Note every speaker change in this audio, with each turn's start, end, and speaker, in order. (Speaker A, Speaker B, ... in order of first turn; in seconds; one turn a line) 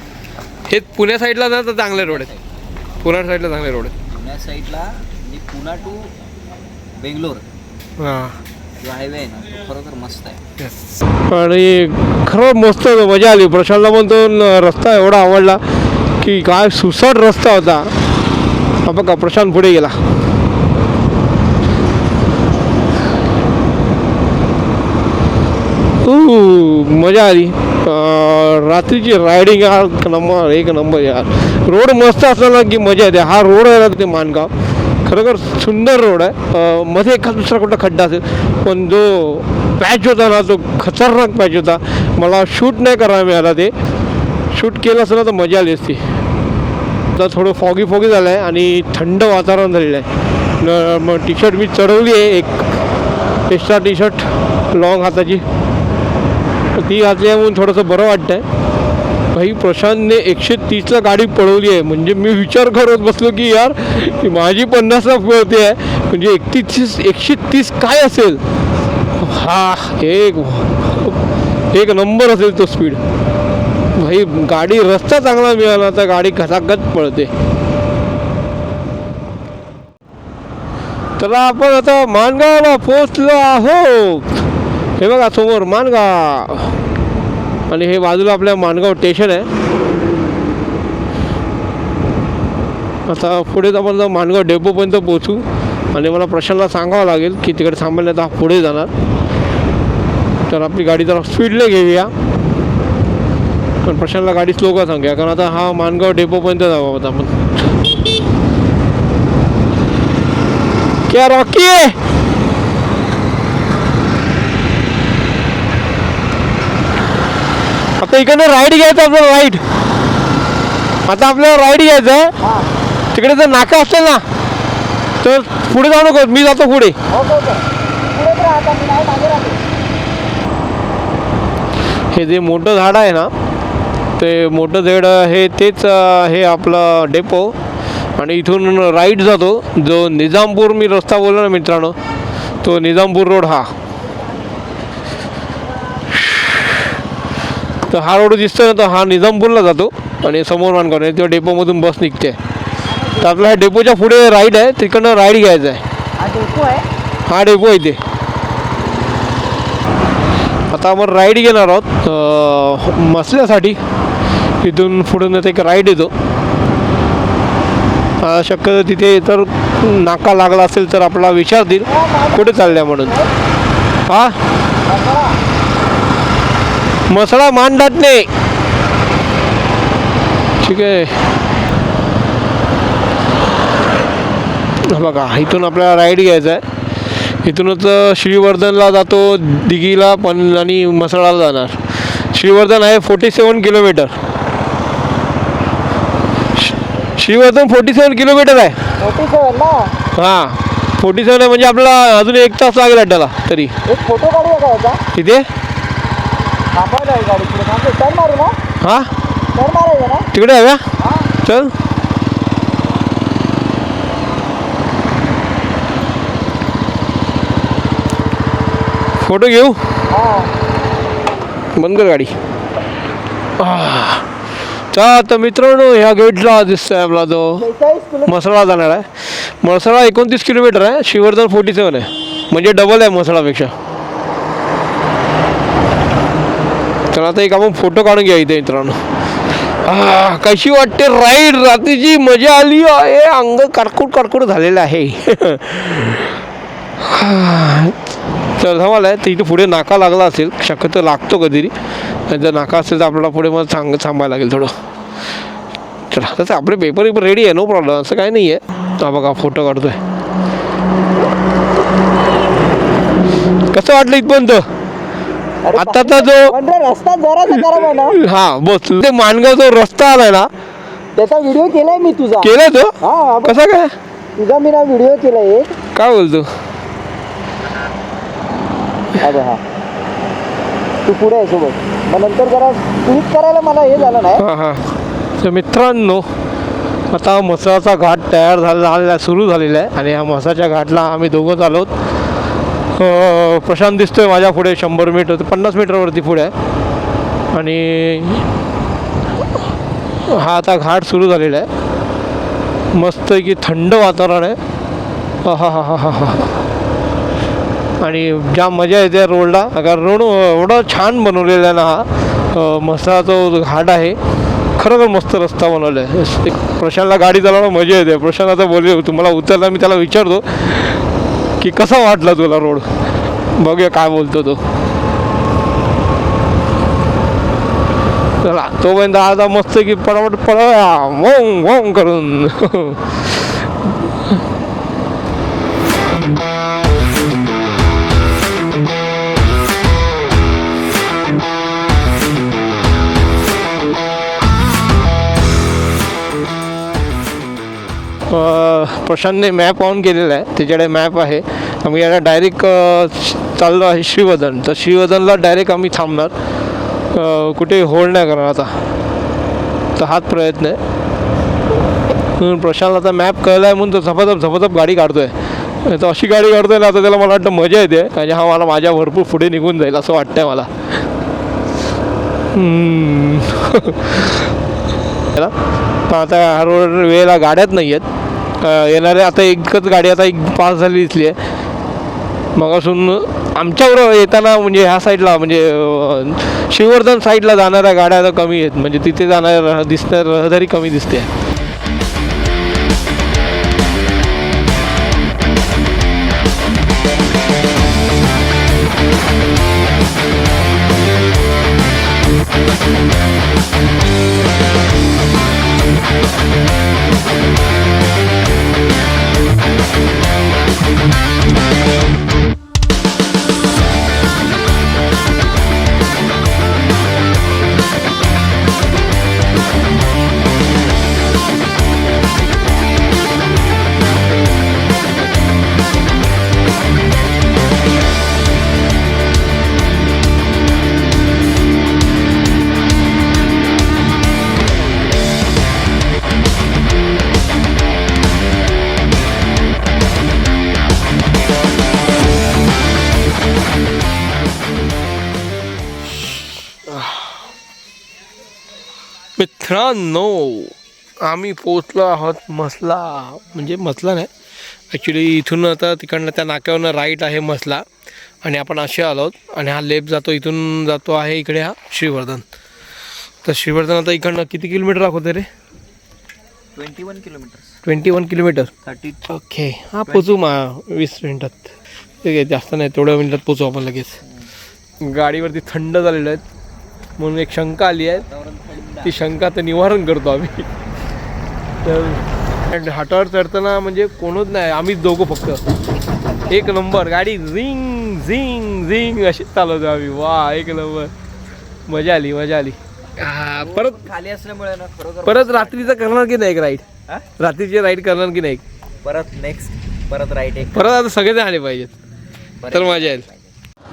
Speaker A: 0.7-2.3
Speaker B: 1.9-2.6
Speaker A: 3.0-4.0
Speaker B: 4.1-6.1
Speaker B: 7.0-7.5
Speaker A: 8.0-8.4
Speaker B: 8.8-10.4
Speaker A: 10.6-15.6
Speaker A: 16.2-17.9
Speaker A: 18.8-20.0
Speaker A: 26.0-34.5
Speaker A: 35.0-43.7
Speaker A: 44.5-46.0
Speaker A: 47.1-50.1
Speaker A: 50.6-52.6
Speaker A: 53.5-55.5
Speaker A: 56.8-58.5
Speaker A: 59.3-68.4
Speaker A: 69.2-71.2
Speaker A: 71.7-73.0
Speaker A: 74.0-77.3
Speaker A: 81.2-84.4
Speaker A: 85.0-86.8
Speaker A: 87.7-89.5
Speaker A: 93.1-98.9
Speaker A: 100.5-102.1
Speaker A: 103.8-107.7
Speaker A: 111.1-112.0
Speaker A: 118.0-119.6
Speaker A: 121.1-122.3
Speaker C: 122.4-122.7
Speaker A: 123.1-124.2
Speaker A: 125.2-127.0
Speaker C: 127.1-129.7
Speaker A: 132.1-133.3
Speaker A: 134.2-137.6
Speaker A: 138.2-142.0
Speaker A: 142.6-143.7
Speaker A: 146.1-146.9
Speaker A: 147.9-152.4
Speaker C: 152.9-153.4
Speaker A: 153.2-155.8
Speaker C: 156.2-156.9
Speaker A: 157.3-158.0
Speaker A: 160.7-163.8
Speaker A: 164.6-166.1
Speaker A: 168.2-173.2
Speaker C: 171.9-173.3
Speaker A: 174.1-174.4
Speaker C: 174.9-175.3
Speaker A: 177.1-178.3
Speaker A: 180.6-181.2
Speaker A: 184.8-186.6
Speaker A: 187.4-194.2
Speaker A: 196.6-198.8
Speaker C: 199.0-199.9
Speaker A: 200.2-203.7
Speaker C: 203.9-205.0
Speaker A: 205.1-205.5
Speaker C: 206.8-208.6
Speaker A: 208.8-209.1
Speaker C: 209.6-210.3
Speaker A: 210.3-210.8
Speaker C: 211.0-211.3
Speaker A: 211.4-211.7
Speaker A: 219.2-219.8
Speaker C: 220.1-220.5
Speaker A: 221.8-222.3
Speaker A: 223.6-224.3
Speaker A: 224.9-227.6
Speaker C: 227.6-228.3
Speaker A: 228.3-233.7
Speaker A: 237.1-239.0
Speaker A: 239.8-246.4
Speaker A: 247.0-248.0
Speaker A: 248.6-251.8
Speaker A: 252.3-254.7
Speaker A: 256.1-260.0
Speaker A: 263.7-264.7
Speaker C: 265.6-268.2
Speaker A: 265.8-266.5
Speaker A: 267.5-270.5
Speaker C: 271.2-273.6
Speaker A: 272.4-273.9
Speaker C: 274.4-275.8
Speaker A: 275.9-276.5
Speaker C: 279.2-279.6
Speaker C: 281.1-284.4
Speaker A: 284.4-284.9
Speaker A: 285.4-286.3
Speaker A: 287.1-291.9
Speaker A: 293.0-296.5
Speaker A: 297.5-298.5
Speaker A: 300.3-301.7
Speaker A: 302.9-304.6
Speaker A: 305.4-306.5
Speaker A: 308.0-314.2
Speaker A: 314.8-321.0
Speaker A: 321.6-322.9
Speaker A: 323.6-324.6
Speaker A: 328.4-334.4
Speaker A: 348.3-356.3
Speaker A: 357.1-358.8
Speaker A: 360.0-360.8
Speaker A: 362.4-371.0
Speaker A: 372.5-374.6
Speaker A: 376.1-378.1
Speaker A: 378.6-381.4
Speaker A: 382.6-391.3
Speaker A: 446.9-447.4
Speaker A: 449.4-454.3
Speaker A: 454.9-457.9
Speaker A: 458.4-462.5
Speaker A: 463.4-465.5
Speaker B: 466.8-467.8
Speaker A: 467.9-468.7
Speaker B: 468.9-469.2
Speaker A: 469.3-474.2
Speaker B: 470.1-470.3
Speaker A: 475.0-476.4
Speaker A: 477.2-478.3
Speaker B: 478.3-479.1
Speaker A: 479.0-480.7
Speaker A: 481.8-485.6
Speaker A: 486.5-491.1
Speaker A: 491.9-494.1
Speaker B: 493.6-495.9
Speaker A: 495.3-498.6
Speaker B: 499.0-501.0
Speaker A: 500.7-501.9
Speaker B: 502.6-503.5
Speaker A: 502.7-503.2